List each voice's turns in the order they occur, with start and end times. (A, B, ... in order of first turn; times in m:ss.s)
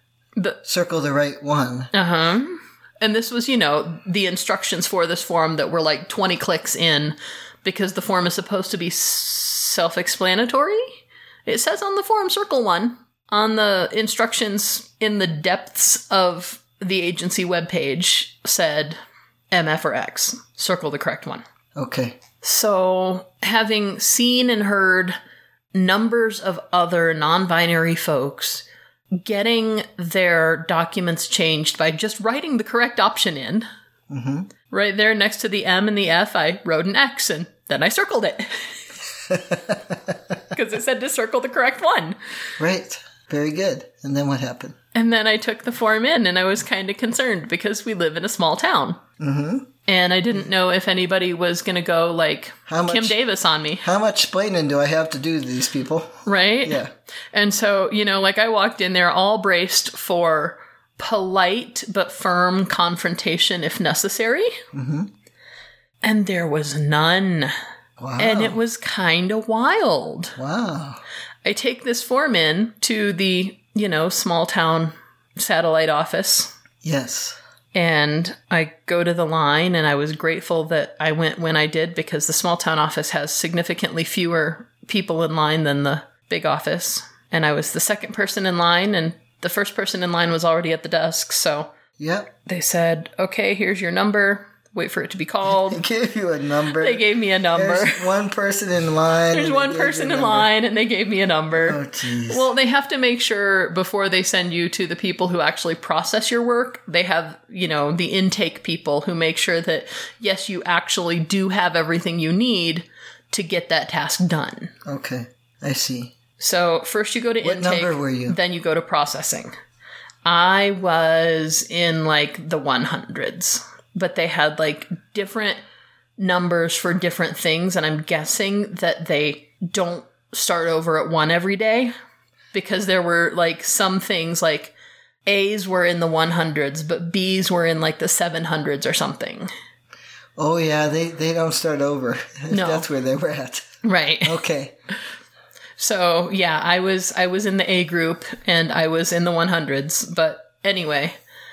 0:00.6-0:01.9 A
0:01.9-0:19.0 B
0:19.5-0:21.4 B
0:21.7-0:22.2 A
0:22.4-0:25.2 B
0:25.7-0:33.7 B
0:34.1-0:34.5 A
0:34.7-0:38.8 B
0:39.3-0:40.1 A
0:40.5-0:42.2 B
0:42.6-0:44.8 A
0:44.9-0:49.0 B
0:49.2-0:49.7 A
0:49.8-0:53.8 B
0:52.7-0:53.2 A
0:53.8-0:56.9 A
0:56.2-0:56.8 B
0:57.3-1:04.6 B
1:04.7-1:05.1 A
1:06.0-1:07.5 B
1:08.0-1:08.6 A
1:08.2-1:10.4 B
1:10.4-1:11.0 A
1:11.4-1:16.5 B
1:16.8-1:17.4 A
1:17.7-1:31.7 B
1:32.0-1:32.3 A
1:32.4-1:35.8 B
1:35.4-1:40.5 A
1:36.8-1:38.1 B
1:39.3-1:54.7 B
1:41.6-1:42.5 A
1:54.8-1:56.1 A
1:56.4-1:59.5 B
1:57.4-1:58.4 A
2:00.2-2:05.6 B
2:06.2-2:11.9 B
2:12.5-2:14.7 B
2:15.2-2:19.5 B
2:20.4-2:24.7 A
2:22.5-2:22.8 B
2:23.8-2:24.4 B
2:25.8-2:31.1 B